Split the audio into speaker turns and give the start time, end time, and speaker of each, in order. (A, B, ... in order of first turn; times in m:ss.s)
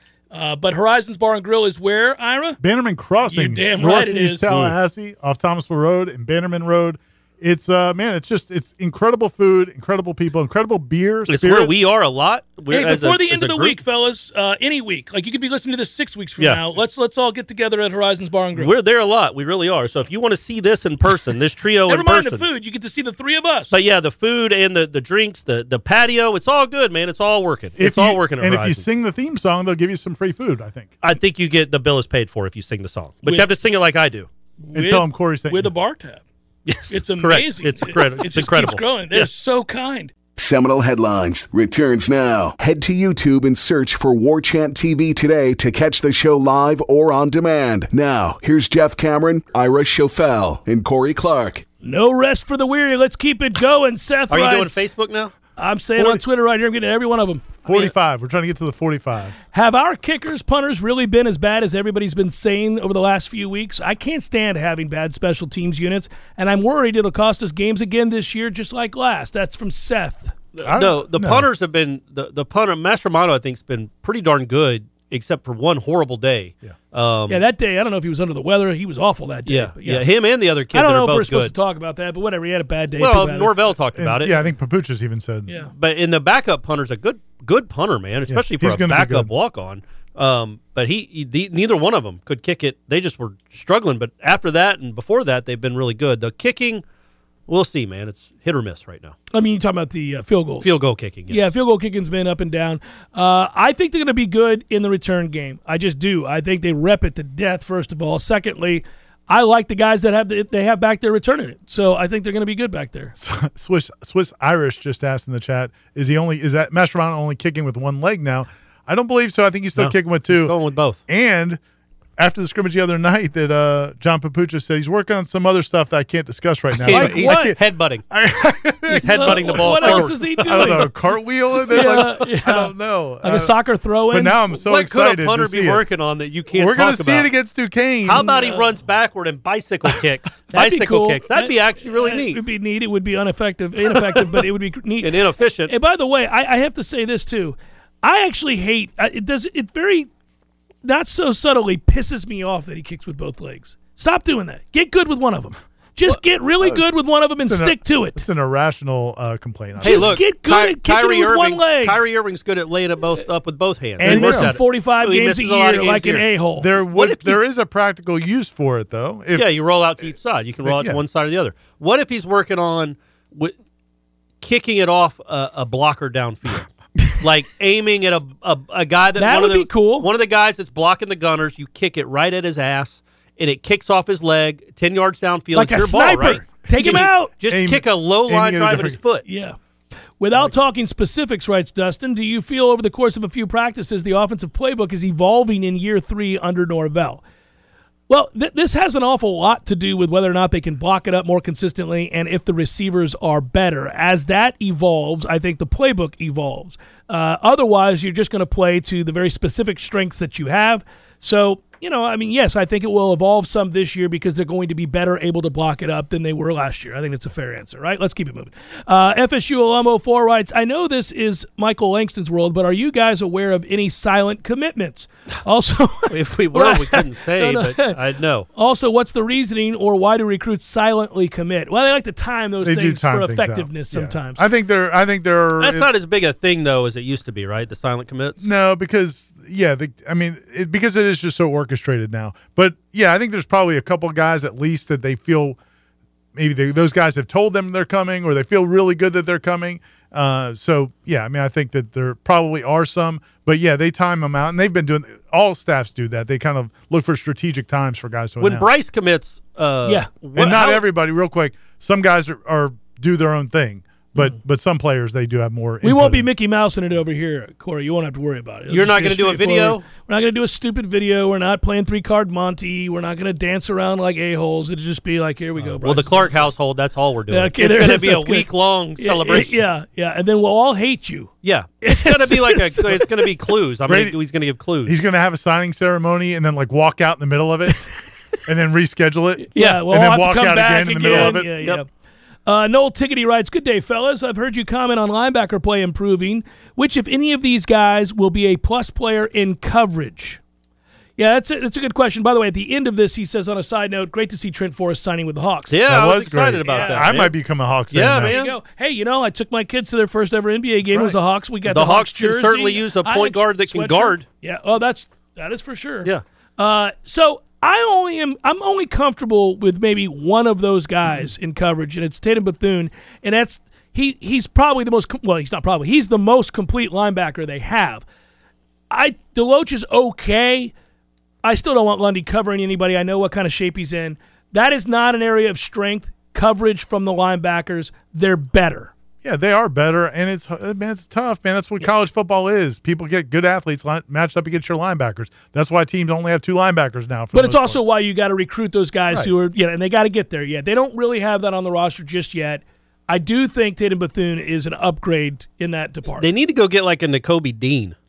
0:00.3-0:02.6 A
0:02.6-0:11.7 B
0:03.3-0:04.5 A
0:04.5-0:04.7 C
0:11.3-0:13.8 C
0:12.7-0:18.7 A
0:18.6-0:22.5 C
0:21.9-0:23.8 A
0:23.7-0:28.8 C
0:27.8-0:30.9 B
0:31.0-0:34.3 C
0:34.6-0:36.2 A
0:34.7-0:35.7 B
0:36.7-0:39.3 C
0:36.9-0:40.1 A
0:40.4-0:51.6 D
0:51.8-0:54.8 A
0:54.3-0:55.3 C
0:55.6-0:57.6 A
0:57.6-0:59.4 B
0:59.5-1:10.4 A
1:10.6-1:17.4 C
1:10.6-1:11.5 B
1:17.3-1:20.1 A
1:19.5-1:21.5 C
1:20.7-1:23.6 A
1:23.0-1:24.5 C
1:24.0-1:25.5 B
1:25.7-1:36.8 C
1:28.3-1:29.3 B
1:37.5-1:39.2 C
1:39.3-1:53.2 A
1:40.6-1:41.5 C
1:53.2-2:00.6 B
1:59.8-2:01.0 C
2:01.1-2:01.6 B
2:02.2-2:13.6 B
2:06.8-2:08.0 C
2:06.9-2:07.5 A
2:08.9-2:10.9 C
2:09.0-2:10.9 A
2:11.7-2:14.4 A
2:14.1-2:15.8 B
2:14.6-2:17.3 C
2:16.5-2:18.4 B
2:18.1-2:22.4 C
2:18.2-2:18.7 A
2:20.5-2:25.2 A
2:23.8-2:24.5 C
2:25.0-2:25.7 C
2:25.7-2:30.1 A
2:30.8-2:38.2 A
2:37.4-2:40.2 B
2:39.8-2:42.0 A
2:39.8-2:46.3 C
2:44.0-2:46.7 A
2:44.0-2:44.5 B
2:46.6-2:49.5 B
2:46.9-2:47.4 C
2:49.3-2:53.5 C
2:50.6-2:51.0 B
2:54.4-3:09.2 C
2:59.2-3:00.1 A
3:05.5-3:07.3 A
3:06.7-3:09.0 B
3:09.3-3:09.6 A
3:10.2-3:17.2 A
3:18.1-3:48.0 A
3:46.1-3:48.5 C
3:48.6-3:54.4 A
3:52.6-3:55.9 B
3:55.6-3:58.4 C
3:58.4-4:05.6 B
4:06.4-4:18.7 B
4:18.4-4:20.9 C
4:20.4-4:26.3 B
4:25.8-4:36.5 A
4:28.7-4:29.8 C
4:35.8-4:39.6 C
4:37.3-4:41.3 A
4:41.4-4:45.0 C
4:41.8-4:43.3 A
4:43.9-4:44.2 B
4:44.8-4:47.9 B
4:48.4-4:51.7 B
4:49.5-4:51.9 A
4:49.6-4:49.8 C
4:51.1-4:51.8 C
4:52.5-5:00.4 A
5:01.2-5:05.8 A
5:05.7-5:07.4 C
5:05.9-5:08.4 B
5:06.7-5:07.1 A
5:07.9-5:08.6 C
5:08.3-5:28.0 A
5:10.8-5:11.2 B
5:11.7-5:14.2 C
5:28.9-5:30.7 A
5:31.4-5:38.9 A
5:39.2-5:47.8 B
5:47.3-5:56.3 A
5:56.2-5:58.0 C